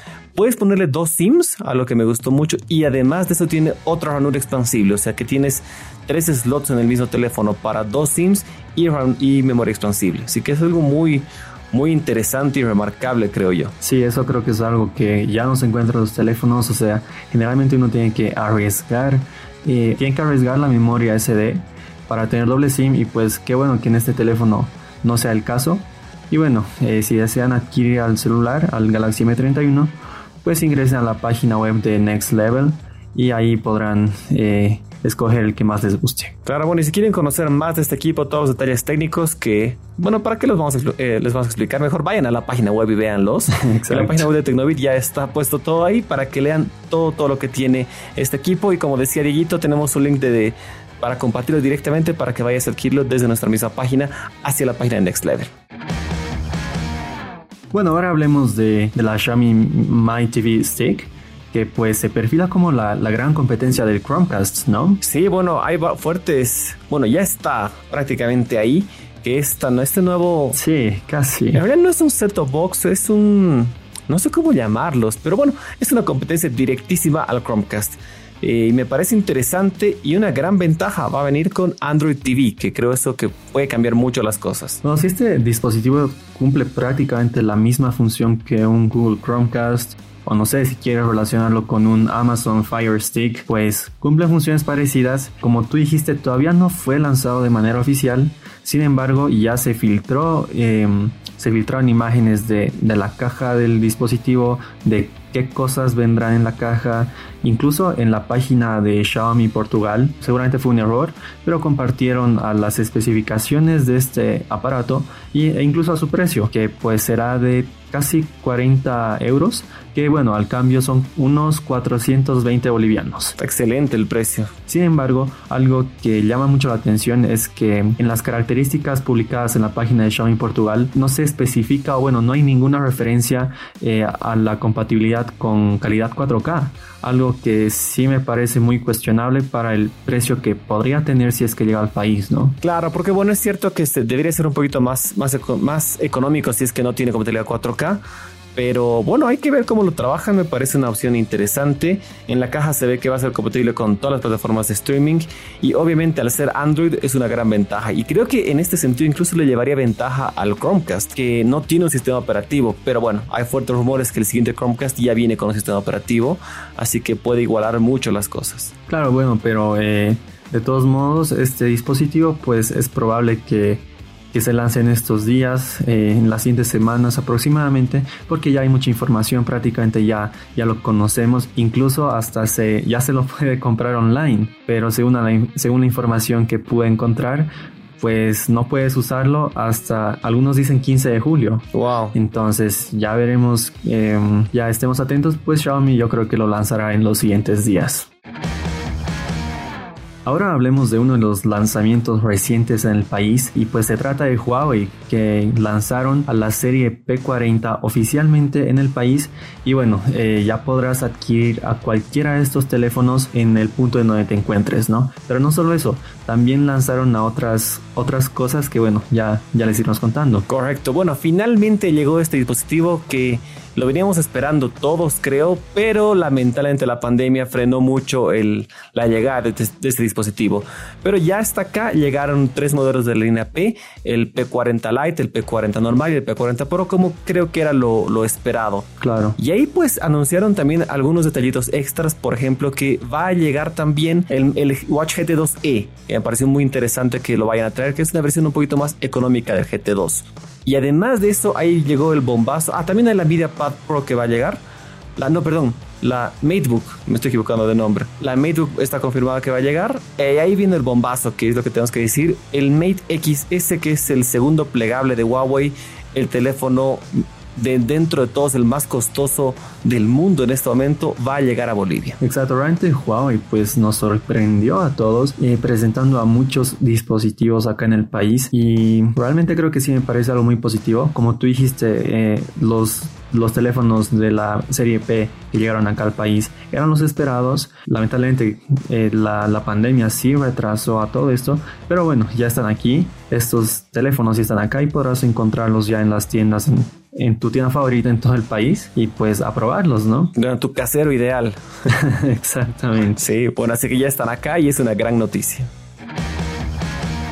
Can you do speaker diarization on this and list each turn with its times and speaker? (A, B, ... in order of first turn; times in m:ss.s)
0:00.3-0:13.7 A
0:13.8-0:36.3 B
0:36.4-0:55.5 A
0:43.5-0:44.3 B
0:57.7-1:05.0 B
1:05.0-1:10.6 A
1:10.5-1:11.6 B
1:11.5-1:24.8 A
1:24.8-2:03.4 B
2:03.4-2:04.5 A
2:04.7-2:22.6 B
2:22.6-2:28.0 A
2:28.6-2:48.7 A
2:48.9-3:18.1 B
3:11.7-3:12.2 A
3:20.2-3:40.5 B
3:40.5-4:14.6 A
3:59.0-3:59.4 B
4:15.2-4:32.2 A
4:32.2-5:00.3 B
5:00.4-5:01.6 A
5:01.9-5:03.2 B
5:03.0-5:05.7 A